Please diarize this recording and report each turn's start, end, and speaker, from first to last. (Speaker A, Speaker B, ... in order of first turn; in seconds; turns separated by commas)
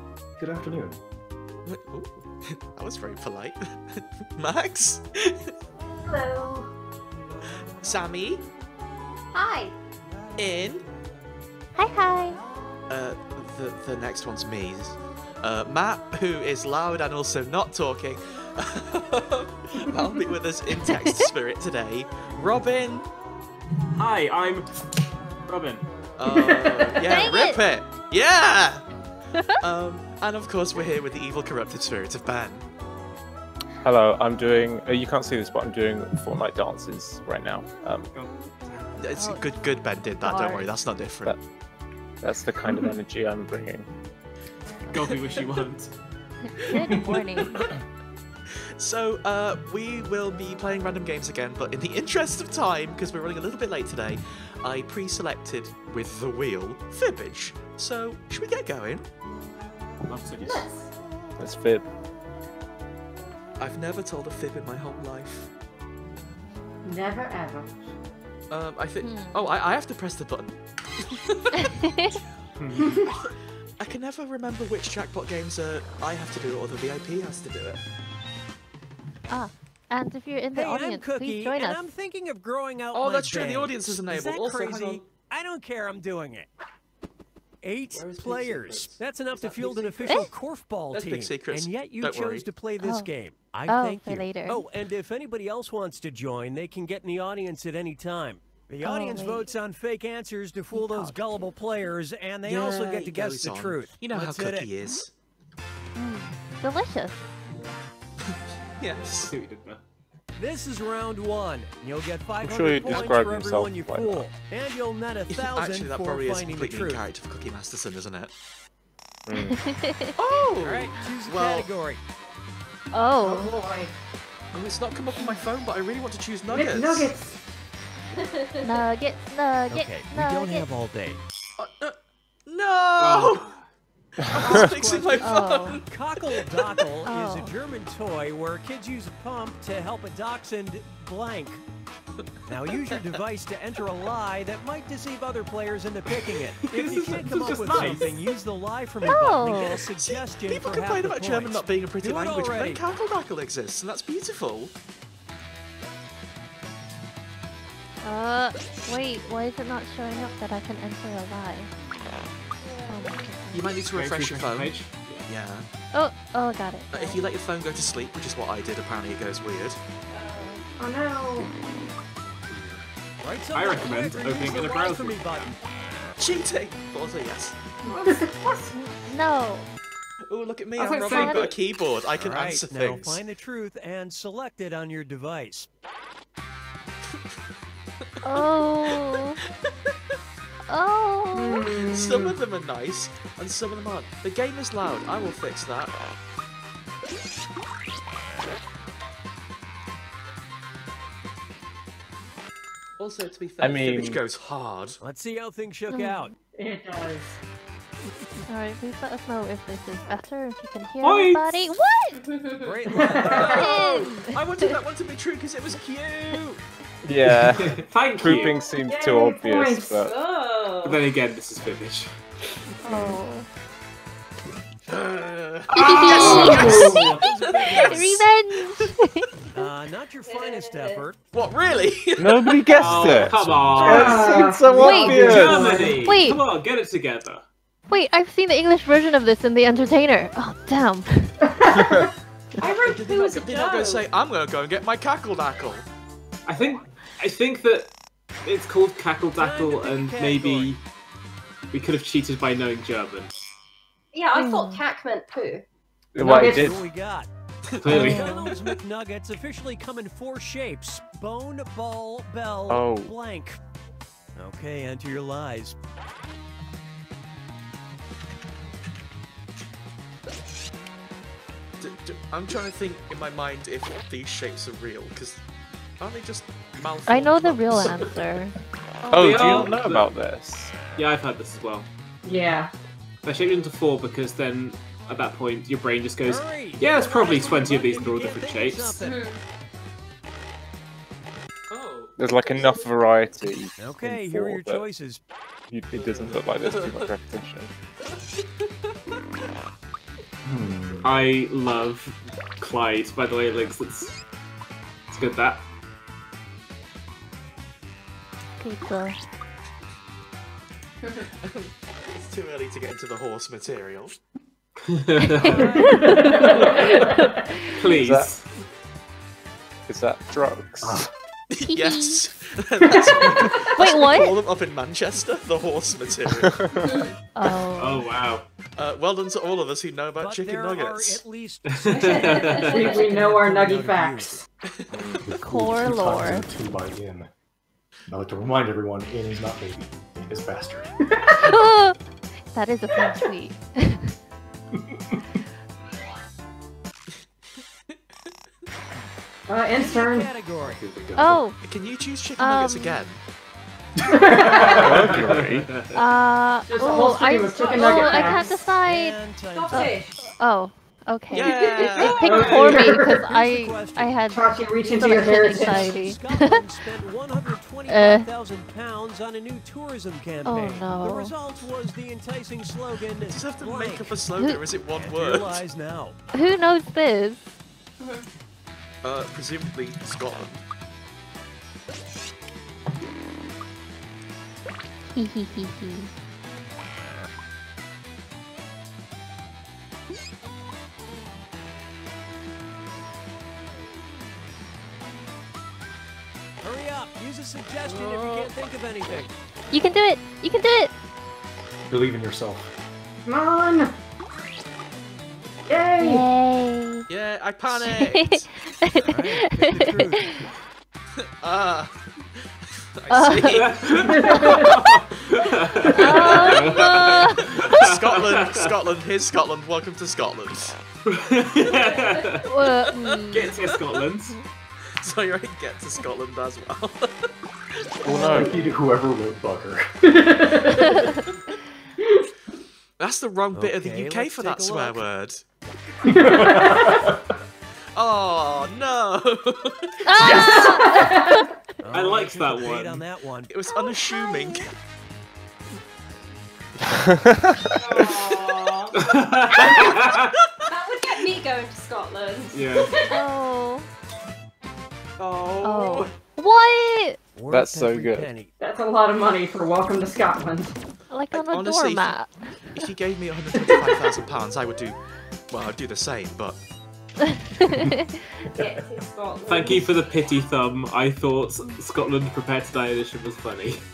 Speaker A: 0.4-1.0, Speaker B: 1.7-5.5, Speaker C: 6.1-6.7, Speaker B: 7.8-8.4, Speaker C: 9.3-9.7, Speaker B: 10.4-10.8, Speaker D: 11.8-12.4, Speaker B: 12.9-23.1, Speaker D: 20.8-21.3, Speaker E: 23.9-24.7, Speaker E: 25.4-25.9, Speaker B: 26.2-28.8, Speaker F: 26.3-27.0, Speaker D: 27.1-27.6, Speaker B: 29.6-32.7, Speaker G: 33.8-38.1, Speaker E: 38.1-39.0, Speaker B: 39.0-41.4, Speaker D: 39.1-40.7, Speaker G: 42.2-43.9, Speaker E: 44.9-45.9, Speaker D: 46.6-47.7, Speaker B: 46.6-46.9, Speaker B: 48.8-59.1, Speaker E: 60.0-60.7, Speaker C: 60.4-60.7, Speaker G: 61.4-61.9, Speaker B: 63.6-65.5, Speaker F: 66.8-67.7, Speaker B: 68.5-70.5, Speaker D: 69.0-69.5, Speaker B: 71.1-71.7, Speaker D: 71.6-72.2, Speaker E: 72.6-73.0, Speaker B: 73.8-77.8, Speaker D: 79.3-81.8, Speaker H: 80.5-86.5, Speaker B: 82.9-85.0, Speaker H: 87.6-104.7, Speaker B: 87.9-90.2, Speaker D: 90.0-90.3, Speaker B: 90.9-92.5, Speaker D: 92.8-93.1, Speaker D: 93.7-94.6, Speaker D: 98.8-99.5, Speaker D: 100.7-101.2, Speaker B: 102.4-105.1, Speaker D: 106.0-107.2, Speaker B: 108.2-109.3, Speaker E: 109.3-109.8, Speaker H: 110.4-117.0, Speaker G: 112.4-114.3, Speaker B: 115.3-118.3, Speaker G: 119.3-119.6, Speaker D: 119.5-120.1, Speaker B: 120.2-121.7, Speaker H: 120.6-122.0, Speaker D: 122.9-123.5, Speaker F: 123.2-123.9, Speaker B: 124.5-127.1, Speaker F: 126.5-127.4, Speaker D: 128.6-130.7, Speaker H: 129.7-131.2, Speaker B: 131.6-133.4, Speaker E: 133.0-133.7, Speaker B: 134.2-136.5, Speaker H: 134.4-141.6, Speaker D: 135.2-135.8, Speaker D: 137.1-137.5, Speaker H: 142.5-152.8, Speaker E: 146.7-148.3, Speaker D: 149.0-149.9, Speaker B: 149.7-154.7, Speaker D: 158.0-161.7, Speaker C: 162.6-163.0, Speaker D: 162.9-163.8, Speaker B: 163.5-164.7, Speaker E: 163.9-165.3, Speaker B: 165.3-165.7, Speaker D: 165.9-167.2, Speaker B: 166.9-169.8, Speaker C: 170.1-170.6, Speaker F: 170.8-171.5, Speaker A: 172.5-172.8, Speaker H: 173.2-175.5, Speaker E: 173.5-175.6, Speaker B: 176.2-177.6, Speaker C: 177.9-178.6, Speaker F: 177.9-178.6, Speaker D: 178.7-179.7, Speaker B: 180.3-183.2, Speaker D: 180.8-181.5, Speaker C: 180.8-181.3, Speaker E: 180.9-181.4, Speaker H: 182.2-185.7, Speaker D: 188.2-189.4, Speaker B: 188.3-189.2, Speaker D: 190.7-191.8, Speaker F: 191.3-192.4, Speaker B: 191.8-196.0, Speaker B: 203.0-205.0, Speaker G: 203.6-204.2, Speaker H: 205.0-206.3, Speaker D: 205.9-206.3, Speaker F: 206.6-207.4, Speaker D: 208.5-212.2, Speaker E: 211.0-211.7, Speaker C: 212.2-212.8, Speaker H: 212.6-213.7, Speaker F: 213.0-213.6, Speaker D: 213.3-214.8, Speaker B: 213.3-216.6, Speaker G: 217.0-220.1, Speaker E: 217.4-218.6, Speaker C: 218.9-219.3, Speaker F: 218.9-220.0, Speaker C: 219.9-221.0, Speaker E: 220.8-222.1, Speaker D: 222.8-223.5, Speaker B: 224.9-228.9, Speaker D: 225.7-227.2, Speaker H: 226.2-228.2, Speaker G: 226.2-226.7, Speaker E: 226.3-226.9, Speaker F: 226.6-226.9, Speaker D: 227.7-229.3, Speaker H: 229.5-231.2, Speaker C: 230.2-231.1, Speaker B: 231.3-233.1, Speaker G: 232.2-235.8, Speaker E: 232.8-234.4, Speaker F: 233.8-236.0, Speaker D: 234.7-236.4, Speaker E: 234.9-237.4, Speaker D: 237.9-241.3, Speaker F: 241.4-242.1, Speaker G: 241.8-242.1, Speaker C: 242.6-244.1, Speaker B: 242.7-245.9, Speaker E: 246.5-247.9, Speaker E: 248.4-250.8, Speaker H: 249.4-250.7, Speaker E: 251.7-253.3, Speaker C: 254.1-255.7, Speaker D: 254.3-254.9, Speaker G: 256.1-256.8, Speaker H: 256.2-257.3, Speaker F: 256.2-256.8, Speaker B: 257.7-258.6, Speaker E: 257.8-258.4, Speaker H: 257.9-263.6, Speaker D: 257.9-258.5, Speaker G: 262.7-263.1, Speaker H: 264.4-265.8, Speaker B: 271.8-275.4, Speaker B: 276.0-278.1, Speaker D: 277.1-278.5, Speaker B: 279.0-279.8, Speaker E: 279.1-280.1, Speaker G: 279.1-280.8, Speaker E: 280.9-281.9, Speaker F: 282.2-282.7, Speaker E: 283.2-289.1, Speaker H: 286.2-289.2, Speaker C: 289.0-289.4, Speaker B: 291.7-292.9, Speaker G: 292.2-294.9, Speaker H: 293.8-295.2, Speaker G: 295.7-297.7, Speaker B: 295.9-297.1, Speaker B: 298.1-298.7, Speaker A: 300.4-301.2, Speaker E: 301.0-304.2, Speaker E: 305.1-305.6, Speaker D: 308.6-309.2, Speaker B: 311.4-314.1, Speaker E: 314.9-315.9, Speaker D: 315.2-317.9, Speaker F: 315.5-317.5, Speaker E: 317.8-318.4, Speaker G: 317.9-318.3, Speaker G: 319.9-321.1, Speaker A: 320.8-321.1, Speaker B: 321.5-326.6, Speaker D: 321.6-322.2, Speaker F: 322.8-323.3, Speaker D: 323.6-324.4, Speaker G: 326.4-326.8, Speaker C: 326.8-327.1, Speaker D: 327.4-328.1, Speaker E: 327.8-328.5, Speaker B: 328.8-331.2, Speaker H: 330.2-334.3, Speaker E: 331.7-333.0, Speaker C: 331.9-333.3, Speaker F: 332.7-334.4, Speaker A: 333.3-334.1, Speaker B: 334.6-335.4, Speaker G: 334.9-335.2, Speaker A: 335.2-337.3, Speaker D: 335.4-336.5, Speaker A: 338.1-340.9, Speaker F: 341.2-341.5, Speaker D: 341.3-342.0, Speaker D: 342.5-344.1, Speaker A: 344.9-345.2, Speaker F: 349.5-350.3, Speaker H: 349.8-350.8, Speaker A: 350.6-351.5, Speaker D: 351.1-351.6, Speaker B: 351.6-353.2, Speaker D: 352.4-353.1, Speaker F: 354.1-355.1, Speaker A: 354.1-355.4, Speaker G: 354.6-355.7, Speaker E: 355.2-355.9, Speaker D: 355.9-359.2, Speaker F: 356.7-358.6, Speaker C: 357.5-358.4, Speaker H: 358.3-360.0, Speaker C: 359.5-360.3, Speaker D: 359.7-366.6, Speaker B: 361.3-362.4, Speaker C: 361.3-362.3, Speaker F: 362.2-363.3, Speaker H: 362.4-364.2, Speaker E: 362.4-362.7, Speaker F: 364.3-366.0, Speaker H: 364.9-374.2, Speaker D: 367.9-368.3, Speaker D: 370.4-371.3, Speaker B: 373.2-375.6, Speaker D: 374.4-374.6, Speaker H: 374.9-376.2, Speaker D: 376.3-377.4, Speaker C: 378.0-378.2, Speaker B: 379.0-380.6, Speaker D: 385.1-386.1, Speaker H: 396.6-399.3, Speaker B: 397.9-398.5, Speaker D: 399.7-400.9, Speaker A: 401.9-402.7, Speaker F: 403.3-403.9, Speaker F: 405.7-406.3, Speaker D: 406.0-407.1, Speaker B: 407.1-409.0, Speaker D: 407.7-410.5, Speaker H: 409.1-410.3, Speaker B: 411.4-412.0, Speaker B: 412.8-414.2, Speaker D: 413.1-413.7, Speaker E: 413.5-418.7, Speaker F: 414.0-414.8, Speaker D: 414.3-414.6, Speaker D: 415.9-417.9, Speaker B: 415.9-420.8, Speaker E: 421.1-422.5, Speaker D: 422.4-423.6, Speaker B: 422.7-423.8, Speaker E: 423.3-424.4, Speaker B: 425.0-427.3, Speaker G: 428.1-428.5, Speaker A: 428.1-430.0, Speaker D: 428.1-428.5, Speaker F: 430.1-431.0, Speaker B: 433.0-435.4, Speaker H: 433.5-435.0, Speaker F: 436.1-437.1, Speaker A: 436.3-437.1, Speaker B: 437.9-440.7, Speaker D: 440.1-441.5, Speaker F: 440.2-441.5, Speaker H: 441.8-443.5, Speaker E: 441.9-443.0, Speaker B: 443.5-444.7, Speaker D: 443.7-444.6, Speaker G: 446.9-448.2, Speaker C: 447.8-448.9, Speaker E: 449.0-450.4, Speaker C: 450.7-453.2, Speaker E: 452.5-452.9, Speaker D: 453.0-453.9, Speaker B: 455.2-456.1, Speaker D: 455.6-457.2, Speaker H: 457.4-458.5, Speaker G: 457.5-458.3, Speaker F: 458.6-460.7, Speaker D: 461.1-462.5, Speaker B: 461.3-465.0, Speaker B: 465.5-466.6, Speaker D: 467.6-468.1, Speaker C: 468.6-470.0, Speaker E: 469.5-473.8